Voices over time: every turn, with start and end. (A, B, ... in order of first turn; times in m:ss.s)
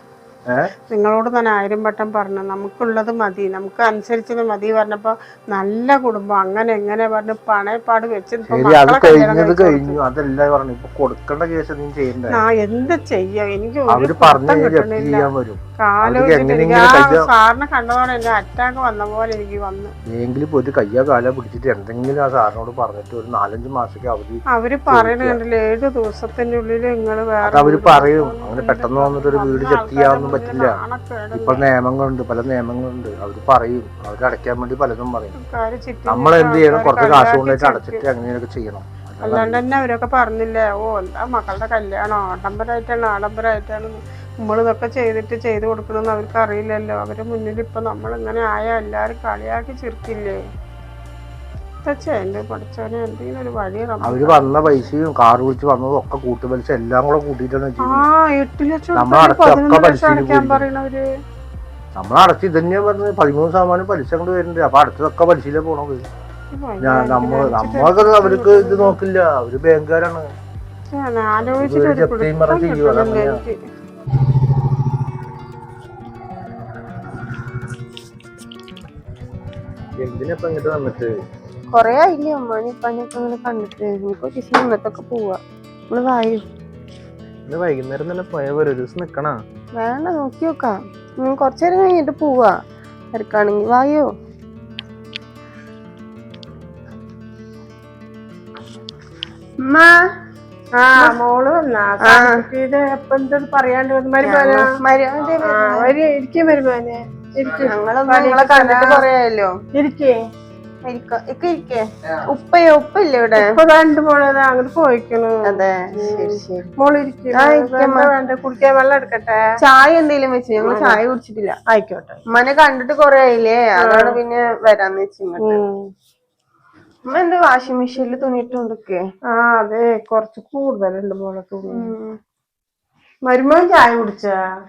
0:00.9-0:10.0 A
0:08.5-0:12.4 B
0:12.3-0:15.3 A
0:13.9-0:17.3 B
0:15.8-0:19.9 A
0:20.0-0:25.4 B
0:24.5-0:31.7 A
0:27.4-0:30.8 B
0:31.3-0:35.4 B
0:35.4-0:38.0 A
0:36.1-0:39.6 B
0:39.2-0:50.4 A
0:51.8-0:54.6 A
0:54.0-0:58.0 B
0:57.8-1:01.0 A
0:58.9-1:00.6 B
1:01.9-1:06.0 B
1:06.5-1:09.0 A
1:06.8-1:10.3 B
1:10.9-1:13.6 A
1:11.6-1:13.4 B
1:20.0-1:21.1 C
1:21.7-1:25.4 D
1:25.9-1:26.4 D
1:27.5-1:29.4 C
1:29.8-1:32.5 D
1:33.1-1:34.1 D
1:39.6-1:39.9 D
1:40.8-1:44.7 A
1:42.0-1:42.3 D
1:44.2-1:45.9 D
1:45.4-1:49.1 A
1:47.6-1:49.6 D
1:49.7-1:50.2 A
1:50.8-1:53.5 D
1:53.4-1:59.4 A
1:55.4-1:56.7 D
1:57.3-1:58.1 D
1:59.6-2:01.6 D
2:00.6-2:01.0 A
2:01.7-2:02.2 A
2:02.3-2:05.6 D
2:03.8-2:04.2 A
2:05.4-2:05.9 A
2:07.0-2:09.0 D
2:09.3-2:11.9 A
2:11.7-2:12.2 D
2:13.2-2:14.3 A